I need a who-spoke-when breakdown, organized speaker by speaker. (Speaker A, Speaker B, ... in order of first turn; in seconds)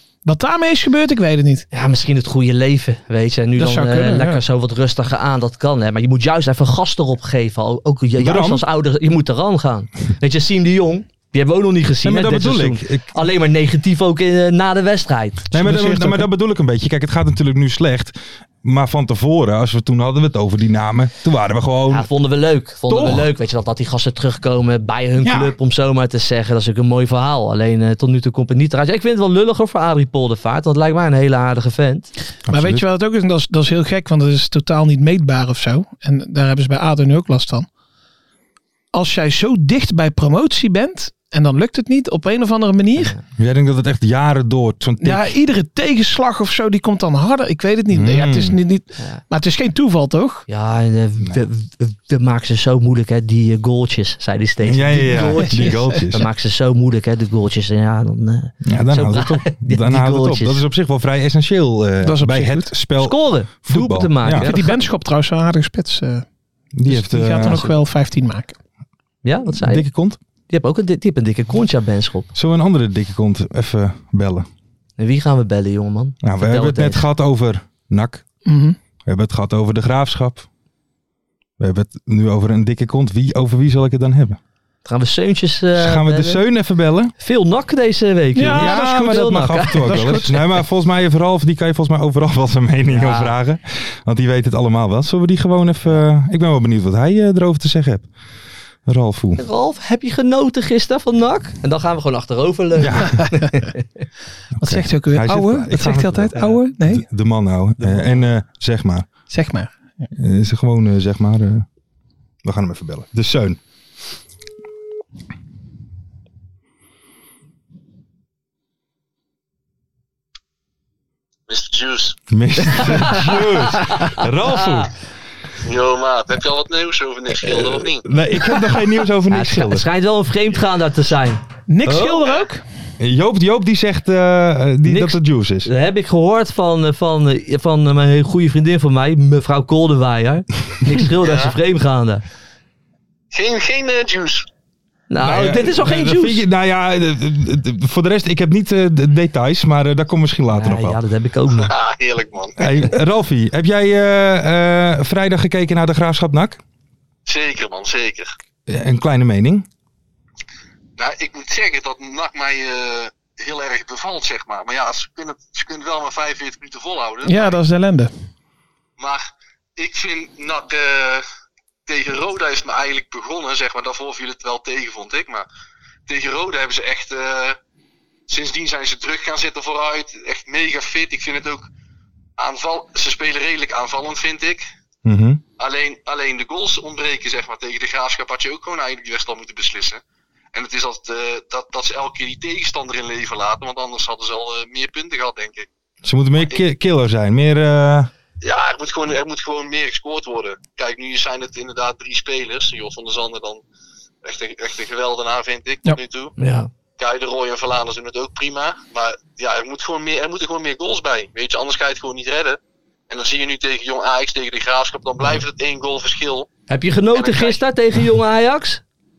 Speaker A: 0.2-1.7, 3.6-4.4, 15.6-16.3, 32.5-37.7, 38.9-43.1, 45.0-50.5, 62.0-62.7, 64.4-66.2, 66.9-68.6, 78.5-78.8, 88.3-90.3, 104.6-107.1, 109.3-110.1, 131.7-132.6, 167.2-168.1
Speaker B: 1.7-15.4, 21.9-32.1, 50.5-60.6, 63.0-64.7, 67.4-67.7, 69.2-69.9, 70.5-72.3, 75.0-77.0, 84.8-86.4, 87.2-90.3, 92.9-93.3, 99.4-103.8, 122.8-124.9, 129.3-132.3, 134.8-142.2, 145.1-146.4, 150.6-151.7, 206.4-206.7, 216.7-218.8
Speaker C: 8.2-8.7, 12.0-13.1, 15.5-22.1, 22.9-23.3, 25.2-25.5, 32.5-32.8, 43.4-45.3, 47.9-48.6, 54.6-56.3, 58.6-64.5, 66.8-67.7, 69.5-70.2, 72.3-74.5, 76.2-78.2, 79.0-80.5, 81.6-84.4, 85.8-87.1, 88.5-98.1, 98.9-99.4, 102.8-103.3, 104.6-109.1, 110.1-111.7, 112.4-113.6, 122.3-124.9, 128.0-129.9, 133.0-135.7, 145.2-151.0, 152.6-156.6, 158.7-159.7, 185.1-185.4, 196.0-198.1
Speaker D: 121.5-122.2, 125.6-128.1, 141.2-141.6, 143.3-144.5, 151.6-152.6, 157.3-158.3, 161.0-167.6, 169.0-171.3, 171.9-175.5, 176.1-177.6, 178.3-181.7, 182.4-184.7, 185.6-190.0, 190.5-195.7, 196.4-196.6, 198.4-203.6, 204.2-206.3, 207.0-212.6, 213.1-216.5, 217.1-217.6